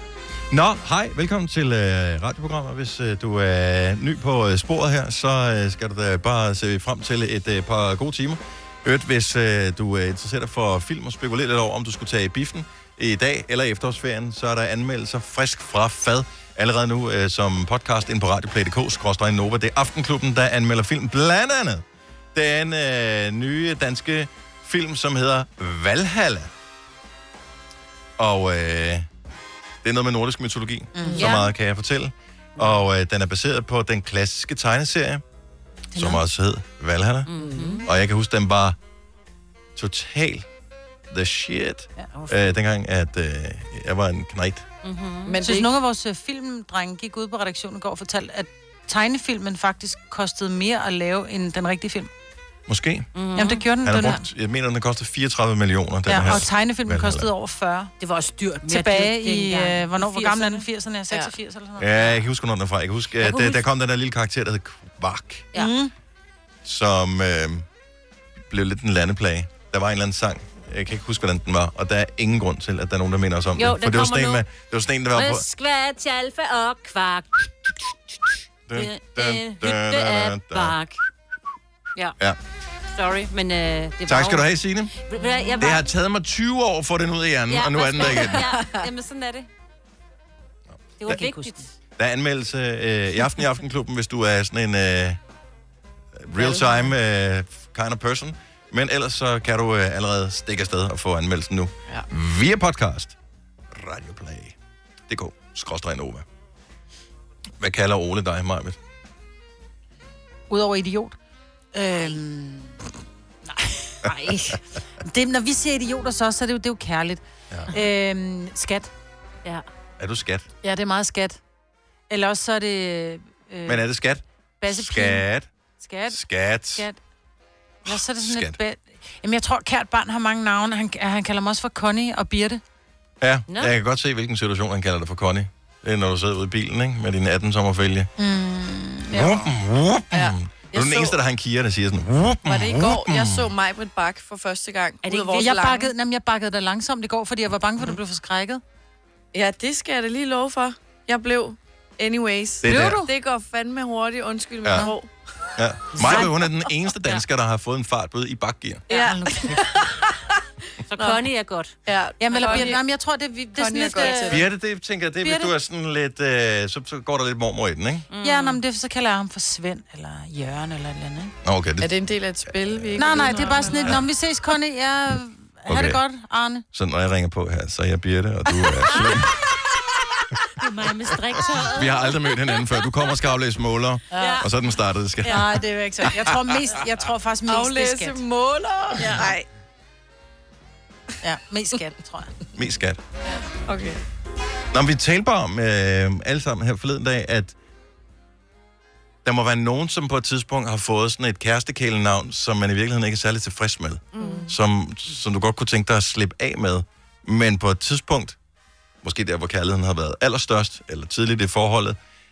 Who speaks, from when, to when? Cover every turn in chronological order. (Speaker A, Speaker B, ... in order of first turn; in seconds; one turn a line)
Speaker A: 0.5-26.5
Speaker A: 28.2-29.1
Speaker A: 29.8-35.2
Speaker B: 31.0-31.3
Speaker C: 31.1-31.5
Speaker A: 36.0-37.3
Speaker C: 37.3-37.9
Speaker D: 37.4-37.8
Speaker A: 37.8-38.8
Speaker A: 39.8-40.5
Speaker A: 41.1-44.7
Speaker C: 44.8-45.4
Speaker D: 45.3-45.7
Speaker B: 45.4-52.1
Speaker A: 52.7-53.1
Speaker C: 53.1-53.7
Speaker B: 53.4-54.2
Speaker A: 53.8-57.3
Speaker B: 56.1-57.9
Speaker C: 58.0-60.7
Speaker B: 58.7-62.2
Speaker A: 61.8-65.5
Speaker C: 63.2-63.6
Speaker B: 65.5-65.9
Speaker A: 66.6-67.7
Speaker A: 68.5-75.5
Speaker C: 73.6-74.4
Speaker C: 75.1-77.5
Speaker A: 78.7-80.8
Speaker C: 78.7-81.0
Speaker C: 82.9-84.5
Speaker A: 84.1-85.0
Speaker C: 85.0-85.8
Speaker A: 85.6-88.5
Speaker C: 87.5-89.5
Speaker C: 91.0-91.7
Speaker A: 91.1-91.3
Speaker A: 92.0-95.2
Speaker A: 96.2-103.2
Speaker A: 103.7-104.6
Speaker A: 105.1-106.2
Speaker A: 107.6-108.8
Speaker B: 110.5-111.2
Speaker B: 111.7-112.9
Speaker B: 113.5-113.9
Speaker C: 114.0-114.6
Speaker B: 115.0-118.9
Speaker A: 120.0-120.5
Speaker B: 120.6-121.4
Speaker B: 122.1-123.8
Speaker A: 123.7-125.5
Speaker B: 124.6-125.2
Speaker B: 125.8-126.2
Speaker A: 126.1-126.9
Speaker B: 126.7-127.0
Speaker A: 127.9-128.6
Speaker B: 127.9-132.6
Speaker A: 133.2-138.1
Speaker C: 133.5-133.7
Speaker B: 138.2-139.5
Speaker A: 139.1-143.5
Speaker D: 140.1-141.2
Speaker D: 142.5-145.9
Speaker C: 145.0-145.7
Speaker B: 145.4-148.6
Speaker D: 149.3-155.1
Speaker A: 152.6-153.0
Speaker B: 152.7-153.1
Speaker A: 154.6-154.9
Speaker A: 155.6-158.8
Speaker D: 156.0-156.2
Speaker D: 158.9-160.0
Speaker C: 158.9-159.6
Speaker C: 160.9-161.7
Speaker D: 160.9-161.2
Speaker D: 161.9-162.8
Speaker B: 162.2-164.4
Speaker C: 162.4-162.7
Speaker D: 163.6-164.5
Speaker A: 164.3-168.1
Speaker B: 165.2-165.5
Speaker C: 168.1-168.6
Speaker B: 168.2-171.3
Speaker A: 171.4-171.9
Speaker D: 171.8-174.0
Speaker A: 172.5-173.1
Speaker B: 173.0-176.7
Speaker A: 175.7-176.0
Speaker A: 176.7-179.4
Speaker C: 178.9-179.2
Speaker C: 180.6-182.2
Speaker A: 181.5-185.6
Speaker B: 184.1-184.4
Speaker C: 184.2-184.5
Speaker B: 185.2-188.2
Speaker D: 187.5-189.4
Speaker B: 189.0-189.3
Speaker B: 191.2-192.3
Speaker A: 192.6-193.0
Speaker D: 193.7-194.0
Speaker A: 194.7-197.6
Speaker A: 199.2-208.4
Speaker D: 204.2-204.5
Speaker A: 209.0-212.0